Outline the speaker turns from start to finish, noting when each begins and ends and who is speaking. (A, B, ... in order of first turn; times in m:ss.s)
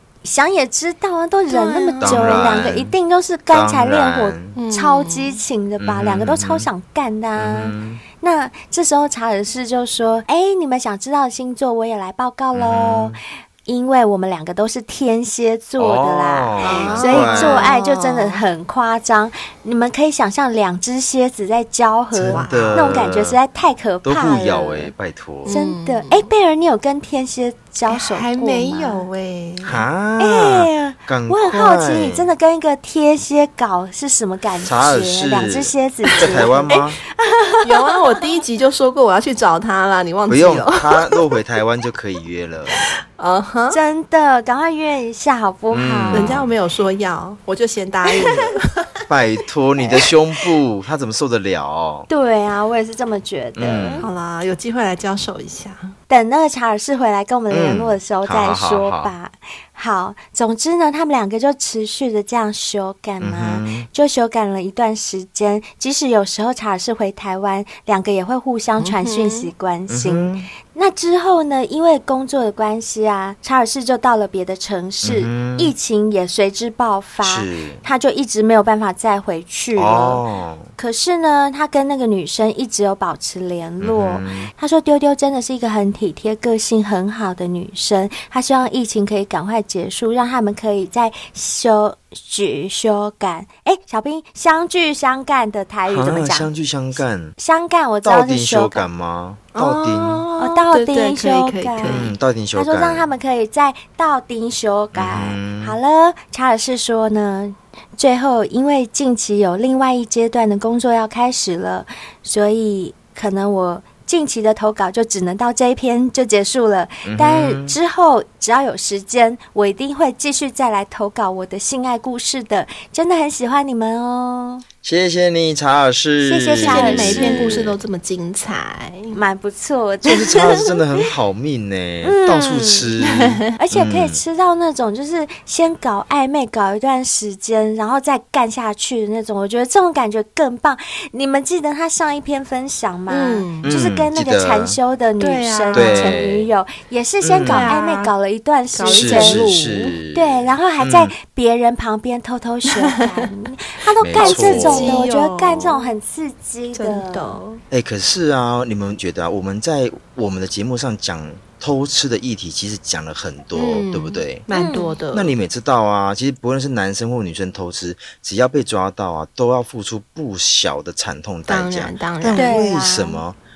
0:00.2-0:24.9 A
0:01.5-0:02.4 B
0:02.0-0:02.9 C
0:03.5-0:04.6 C
0:04.6-0:05.4 B
0:05.8-0:06.7 C
0:07.4-0:08.0 C
0:12.5-0:13.2 C
0:15.8-0:17.7 C
0:16.6-0:18.4 B
0:22.1-0:23.4 C
0:22.3-0:23.0 B
0:24.0-0:25.5 C
0:25.4-0:26.3 B
0:25.5-0:29.1 A
0:27.9-0:29.8 B
0:29.6-0:32.3 C
0:30.2-0:38.3 A
0:34.6-0:37.0 C
0:36.2-0:36.8 B
0:37.6-0:41.1 B
0:40.3-0:42.9 C
0:43.2-0:43.8 B
0:43.7-0:46.4 A
0:45.7-0:46.5 C
0:46.1-0:48.9 B
0:49.1-0:52.1 C
0:52.1-0:54.1 A
0:53.6-0:54.1 C
0:54.0-0:55.9 B
0:56.1-1:20.2 A
0:57.5-0:59.1 C
1:03.2-1:03.9 C
1:08.8-1:09.5 B
1:09.9-1:10.5 C
1:15.0-1:15.7 C
1:17.2-1:17.8 C
1:19.8-1:20.7 C
1:20.8-1:36.5 A
1:23.8-1:24.5 C
1:35.9-1:37.4 C
1:37.4-1:38.9 A
1:38.0-1:40.2 C
1:39.6-1:42.1 B
1:40.4-2:04.6 A
1:41.8-1:43.1 C
1:44.9-1:45.8 C
1:57.0-1:57.8 C
2:04.8-2:07.8 C
2:06.2-2:07.7 A
2:06.6-2:09.2 B
2:09.1-2:10.7 A
2:10.0-2:14.2 C
2:12.0-2:12.9 A
2:13.0-2:13.4 B
2:13.6-2:29.4 A
2:23.1-2:23.7 B
2:23.6-2:24.8 C
2:25.2-2:26.2 B
2:25.7-2:26.5 C
2:27.2-2:27.7 C
2:27.4-2:28.1 B
2:28.7-2:30.0 B
2:28.9-2:31.1 C
2:30.1-2:37.4 A
2:32.7-2:33.3 B
2:34.0-2:35.0 C
2:34.2-2:35.9 B
2:36.8-2:37.6 B
2:37.7-2:44.5 C
2:43.5-2:45.3 B
2:44.5-2:44.9 A
2:45.1-2:53.4 C
2:51.5-2:52.6 B
2:52.3-2:53.2 A